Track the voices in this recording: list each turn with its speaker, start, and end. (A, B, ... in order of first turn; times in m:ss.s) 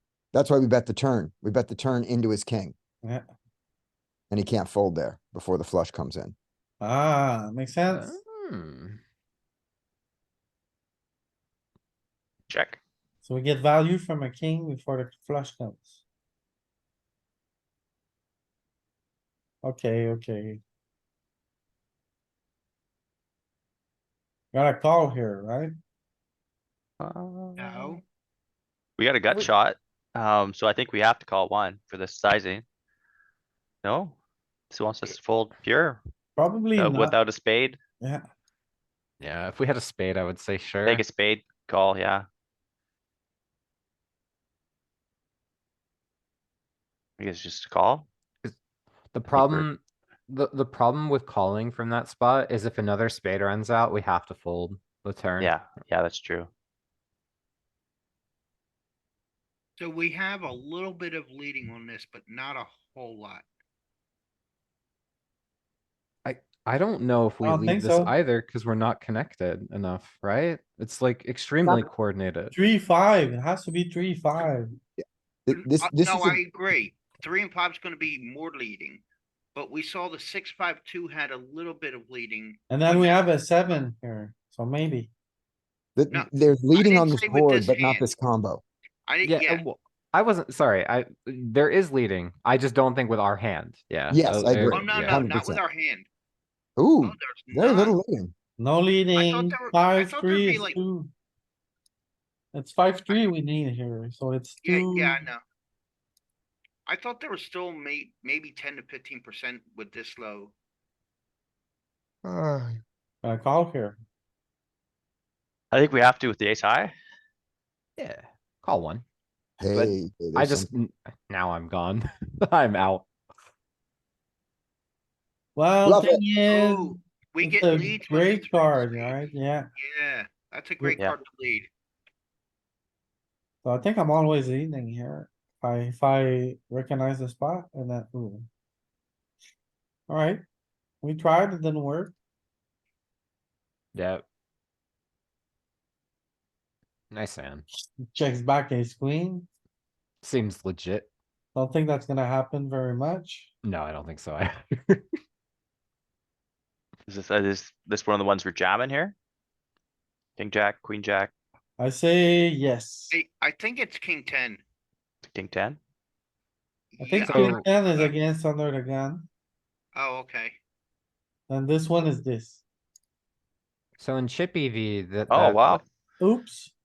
0:00.3-0:02.7 A
0:04.3-0:06.3 A
0:06.8-0:08.2 B
0:07.9-0:09.0 C
0:12.5-0:12.8 D
0:13.2-0:16.0 B
0:19.6-0:20.6 B
0:24.5-0:25.7 B
0:27.0-0:28.0 D
0:27.6-0:28.0 E
0:29.0-0:32.6 D
0:33.8-0:34.2 D
0:34.7-0:36.0 D
0:36.4-0:37.2 B
0:36.8-0:37.8 D
0:39.2-0:41.0 C
0:40.8-0:42.2 D
0:47.2-0:48.1 D
0:49.1-0:55.6 C
0:49.3-0:49.6 D
0:55.4-0:56.5 D
0:59.8-1:03.4 E
1:06.2-1:12.5 C
1:07.4-1:08.1 B
1:11.6-1:11.9 A
1:12.5-1:14.7 B
1:15.0-1:16.4 A
1:15.5-1:19.0 E
1:19.5-1:23.2 E
1:22.7-1:25.1 B
1:26.0-1:28.6 A
1:26.1-1:28.1 E
1:29.0-1:29.6 E
1:29.2-1:35.2 C
1:34.1-1:35.6 A
1:34.6-1:36.1 E
1:36.8-1:38.3 A
1:37.0-1:37.9 E
1:38.6-1:41.1 B
1:39.2-1:40.8 E
1:42.5-1:45.3 B
1:44.6-1:45.4 E
1:46.8-1:50.5 E
1:52.2-1:52.8 A
1:53.2-1:54.0 B
1:55.7-1:56.9 D
1:58.0-1:59.0 C
1:59.6-2:00.7 A
1:59.7-2:03.1 C
2:05.6-2:09.7 B
2:05.8-2:06.2 A
2:06.4-2:11.7 E
2:13.6-2:18.5 B
2:20.1-2:20.4 B
2:21.0-2:22.1 B
2:23.9-2:24.2 C
2:27.1-2:27.6 C
2:28.1-2:29.5 B
2:30.2-2:31.1 C
2:31.5-2:33.5 B
2:33.6-2:35.2 C
2:37.1-2:39.1 D
2:40.4-2:41.3 D
2:41.8-2:43.1 B
2:43.1-2:44.6 E
2:45.2-2:45.8 D
2:46.9-2:48.1 E
2:47.0-2:49.3 B
2:47.2-2:47.6 C
2:49.9-2:50.6 E
2:51.5-2:52.6 B
2:54.0-2:55.8 C
2:55.3-2:55.8 D
2:56.2-2:56.7 B